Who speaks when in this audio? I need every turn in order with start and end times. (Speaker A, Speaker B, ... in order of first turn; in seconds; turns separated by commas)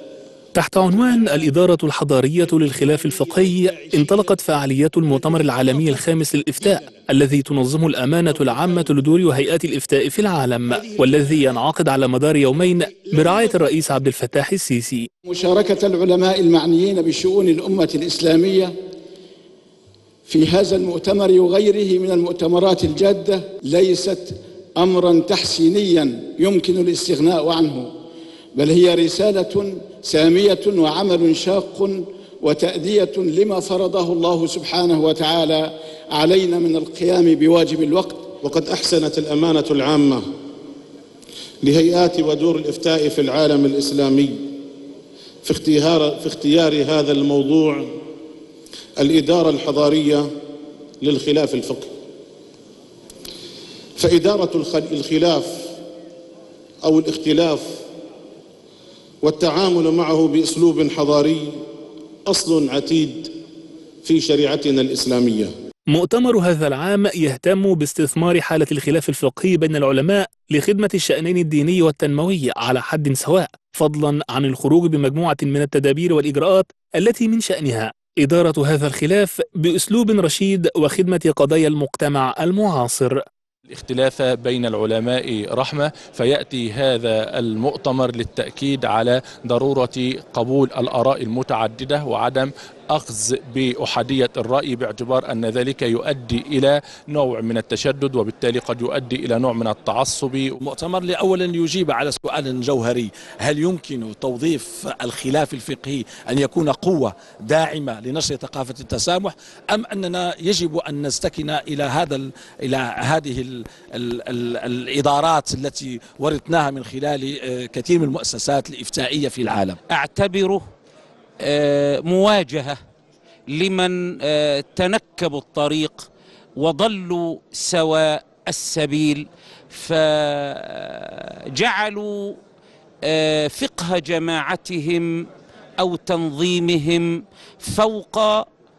Speaker A: 0.6-15.1, Speaker B: 15.3-18.7, Speaker B: 20.3-27.9, Speaker B: 28.6-38.3, Speaker C: 38.4-40.2, Speaker C: 41.6-44.4, Speaker C: 45.4-47.9, Speaker C: 49.0-50.3, Speaker C: 51.0-51.9, Speaker C: 54.0-55.7, Speaker C: 56.8-57.8, Speaker C: 59.2-61.6, Speaker C: 62.3-63.3, Speaker C: 64.0-65.5, Speaker A: 65.9-83.2, Speaker D: 83.7-100.6, Speaker E: 100.6-119.8, Speaker F: 119.9-120.6, Speaker F: 121.4-122.8, Speaker F: 123.5-132.3, Speaker F: 133.1-135.1, Speaker F: 135.8-138.4